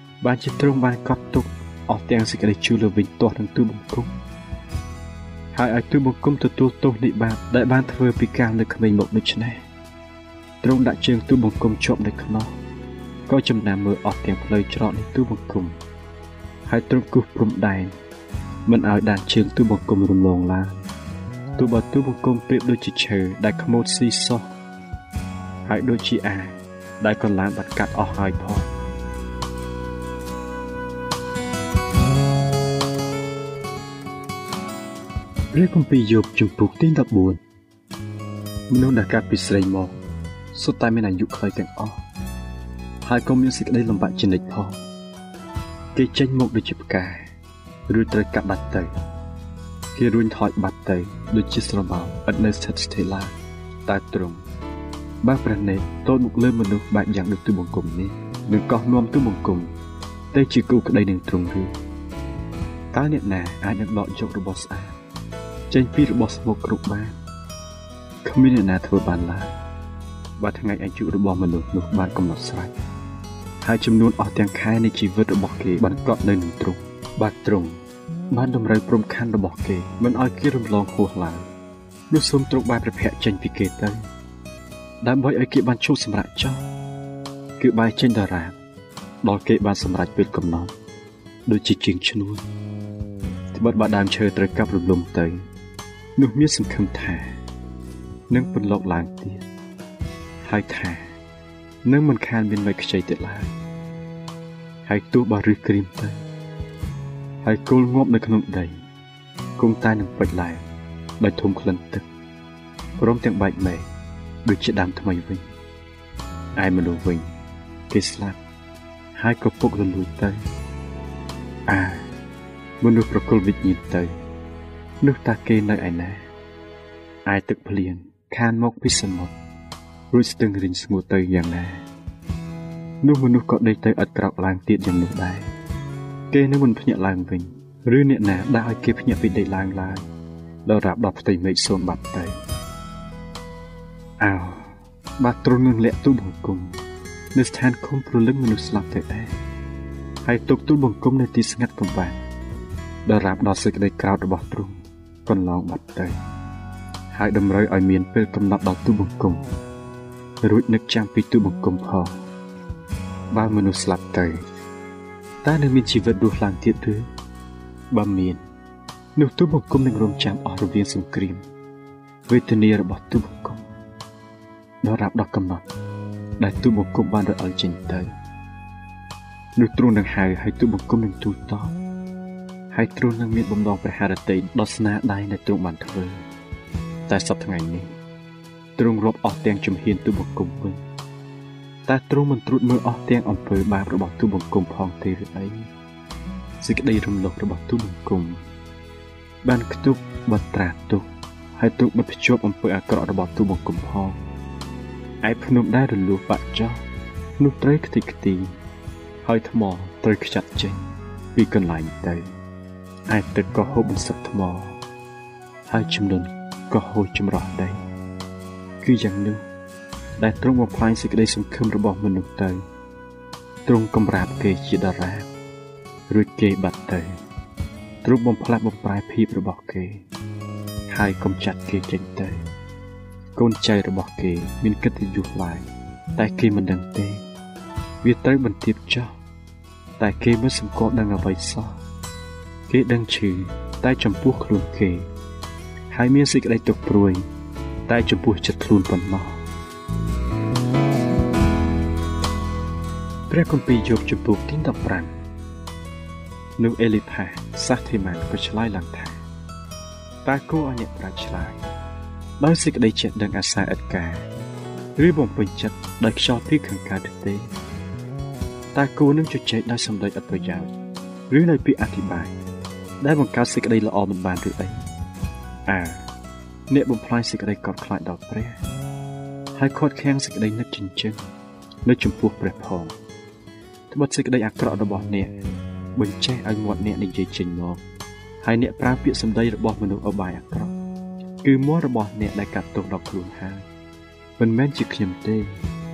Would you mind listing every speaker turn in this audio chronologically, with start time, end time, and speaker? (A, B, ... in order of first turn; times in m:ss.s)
0:00.2-0:04.1 A
0:05.5-0:09.6 A
0:10.6-0:12.5 A
0:13.3-0:15.8 A
0:16.7-0:17.9 A
0:18.7-0:20.8 A
0:21.6-0:24.5 A
0:25.7-0:28.7 A
0:35.5-0:37.4 A
0:38.7-0:40.0 A
0:40.5-0:42.0 A
0:43.0-0:44.8 A
0:45.9-0:47.3 A
0:47.9-0:48.9 A
0:50.0-0:53.4 A
0:53.9-0:54.4 A
0:55.2-0:59.7 A
1:00.3-1:01.7 A
1:02.9-1:05.0 A
1:05.7-1:07.2 A
1:08.2-1:09.5 A
1:10.4-1:12.7 A
1:13.6-1:17.8 A
1:18.3-1:21.5 A
1:22.1-1:24.0 A
1:25.0-1:26.6 A
1:27.6-1:28.6 A
1:29.2-1:30.7 A
1:31.5-1:32.4 A
1:33.5-1:35.4 A
1:36.2-1:37.4 A
1:38.3-1:39.4 A
1:40.4-1:41.1 A
1:41.8-1:43.5 A
1:44.9-1:46.2 A
1:47.4-1:48.8 A
1:49.6-1:50.6 A
1:51.2-1:52.1 A
1:53.0-1:53.9 A
1:54.5-1:55.4 A
1:56.6-1:57.3 A
1:57.9-1:58.4 A
1:59.2-2:00.4 A
2:01.7-2:02.0 A
2:02.8-2:04.1 A
2:05.0-2:06.3 A
2:07.3-2:09.3 A
2:10.1-2:11.8 A
2:13.0-2:15.5 A
2:16.3-2:20.0 A
2:20.6-2:22.4 A
2:24.2-2:26.8 A
2:27.3-2:29.3 A
2:30.2-2:32.2 A
2:33.1-2:36.2 A
2:37.1-2:39.4 A
2:40.4-2:42.2 A
2:43.3-2:44.5 A
2:45.4-2:47.0 A
2:47.9-2:48.4 A
2:49.2-2:51.4 A
2:52.3-2:53.6 A
2:54.8-2:55.6 A
2:56.4-2:58.1 A
2:59.6-3:01.7 A
3:02.7-3:06.2 A
3:07.1-3:07.9 A
3:08.8-3:10.8 A
3:11.9-3:15.7 A
3:16.6-3:18.4 A
3:19.4-3:21.0 A
3:21.6-3:24.2 A
3:25.2-3:26.8 A
3:27.4-3:28.5 A
3:29.2-3:30.8 A
3:31.3-3:32.2 A
3:33.1-3:34.8 A
3:35.7-3:37.8 A
3:38.8-3:39.4 A
3:40.2-3:42.6 A
3:43.7-3:45.3 A
3:46.1-3:47.2 A
3:48.0-3:50.0 A
3:50.9-3:52.4 A
3:53.4-3:57.2 A
3:58.0-3:59.1 A
4:00.0-4:01.8 A
4:02.7-4:05.1 A
4:05.9-4:07.3 A
4:07.9-4:09.4 A
4:13.3-4:15.1 A
4:16.6-4:19.2 A
4:20.2-4:21.6 A
4:22.4-4:24.3 A
4:25.0-4:27.5 A
4:28.7-4:30.7 A
4:31.3-4:32.4 A
4:33.0-4:34.8 A
4:35.7-4:36.1 A
4:36.7-4:38.6 A
4:39.6-4:41.2 A
4:41.8-4:43.0 A
4:43.9-4:45.3 A
4:46.0-4:47.8 A
4:48.4-4:50.7 A
4:51.4-4:53.7 A
4:54.4-4:55.5 A